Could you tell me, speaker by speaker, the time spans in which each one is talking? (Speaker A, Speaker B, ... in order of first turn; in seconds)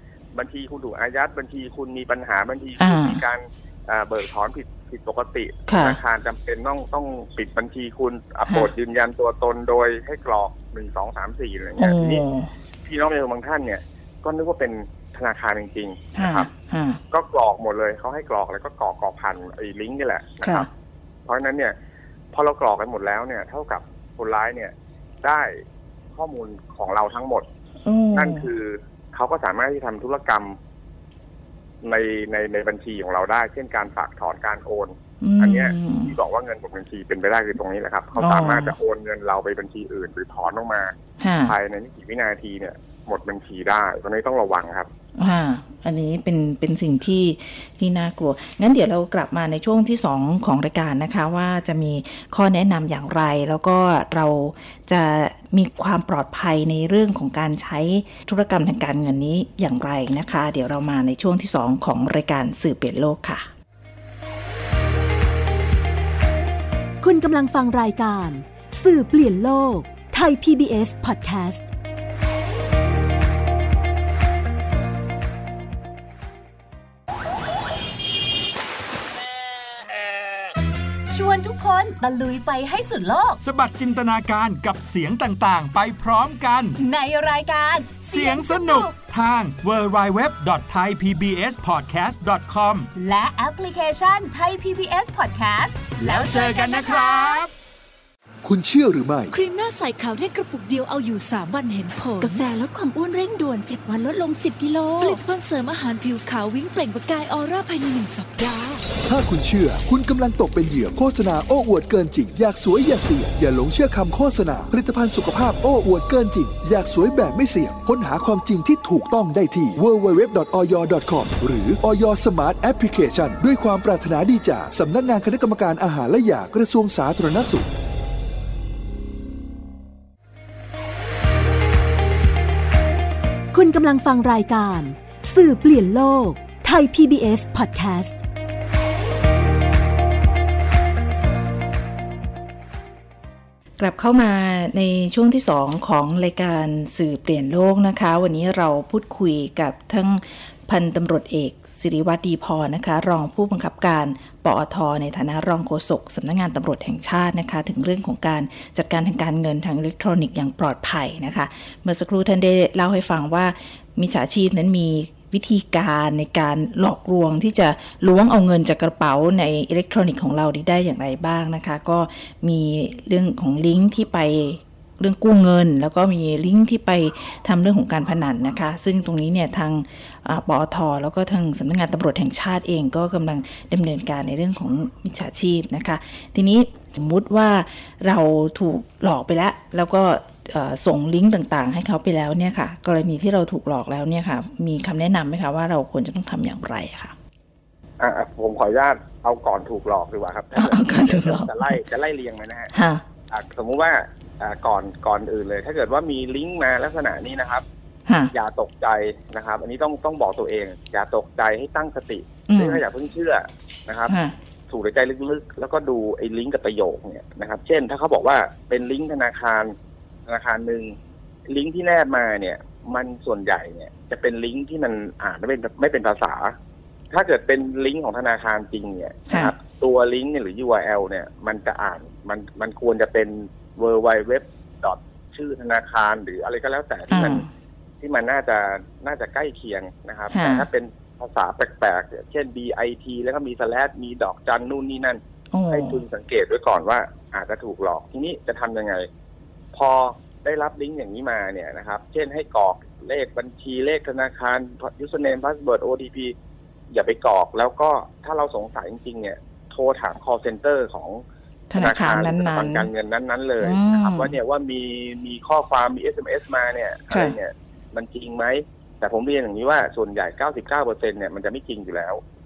Speaker A: 0.3-12.2, 12.8-16.5, 17.1-20.7, 21.2-21.7, 22.3-25.6, 26.1-27.5, 28.1-30.6, 31.8-40.9, 41.5-44.9, 198.0-202.7, 203.3-207.6, 208.3-214.1, 214.7-219.7, 220.3-220.9, 221.5-226.6, 227.1-237.4, 238.0-249.1, 249.7-256.3, 256.9-261.2, 261.8-272.2
Speaker B: 2.8-3.2, 5.7-6.0, 11.8-12.5, 16.1-17.0, 20.4-20.7, 27.8-28.5, 35.2-36.1, 38.2-38.8, 41.2-41.5, 45.2-63.5, 143.8-197.1, 200.5-201.8, 202.7-203.0, 208.1-208.3, 212.5-212.8, 214.1-214.3, 237.1-237.5, 240.3-240.7, 245.5-246.0, 261.7-262.9, 263.6-264.4, 267.1-267.4
Speaker C: 67.0-71.7, 133.5-138.2
Speaker D: 81.1-83.4, 86.8-88.9, 93.0-97.5
Speaker E: 83.4-86.8, 88.0-92.9, 96.0-97.5
Speaker F: 98.4-99.3, 109.1-127.7
Speaker G: 99.3-108.8